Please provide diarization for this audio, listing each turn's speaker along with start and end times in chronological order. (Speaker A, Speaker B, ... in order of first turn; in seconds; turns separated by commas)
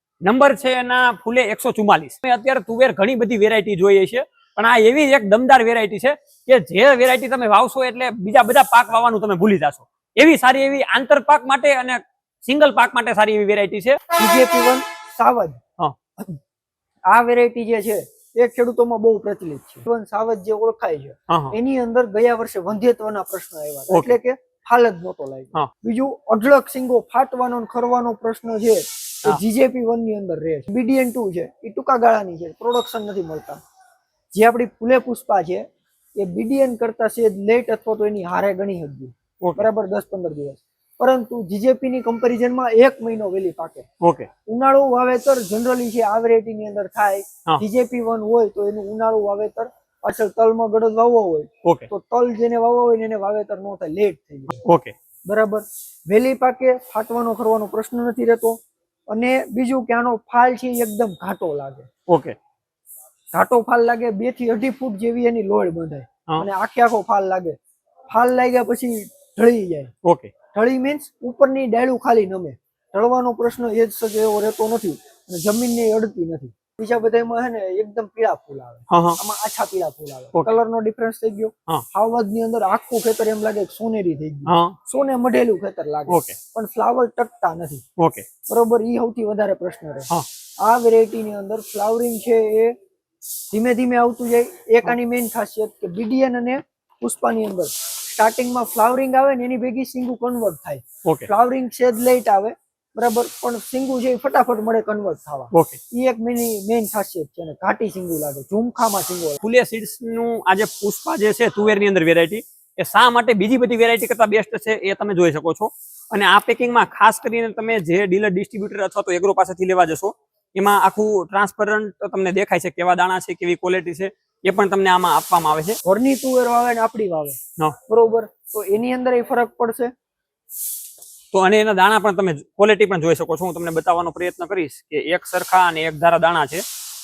Speaker A: 0.2-14.0, Speaker B: 14.2-15.6, Speaker B: 17.1-33.6, Speaker A: 21.3-21.6, Speaker A: 23.9-24.2, Speaker B: 34.3-35.7, Speaker B: 36.2-43.9, Speaker A: 39.4-39.7, Speaker A: 44.0-44.3, Speaker B: 44.5-54.6, Speaker A: 51.6-51.9, Speaker A: 54.6-54.9, Speaker B: 55.3-58.6, Speaker B: 59.1-61.9, Speaker A: 62.1-62.4, Speaker B: 63.3-67.6, Speaker B: 68.1-69.9, Speaker A: 70.0-70.3, Speaker B: 70.5-87.8, Speaker A: 78.9-79.2, Speaker A: 84.5-84.8, Speaker A: 86.1-86.4, Speaker A: 88.0-88.3, Speaker B: 88.5-90.1, Speaker B: 90.6-92.8, Speaker B: 93.5-109.4, Speaker A: 105.5-105.8, Speaker A: 109.4-125.8, Speaker B: 125.8-129.9, Speaker A: 131.3-136.6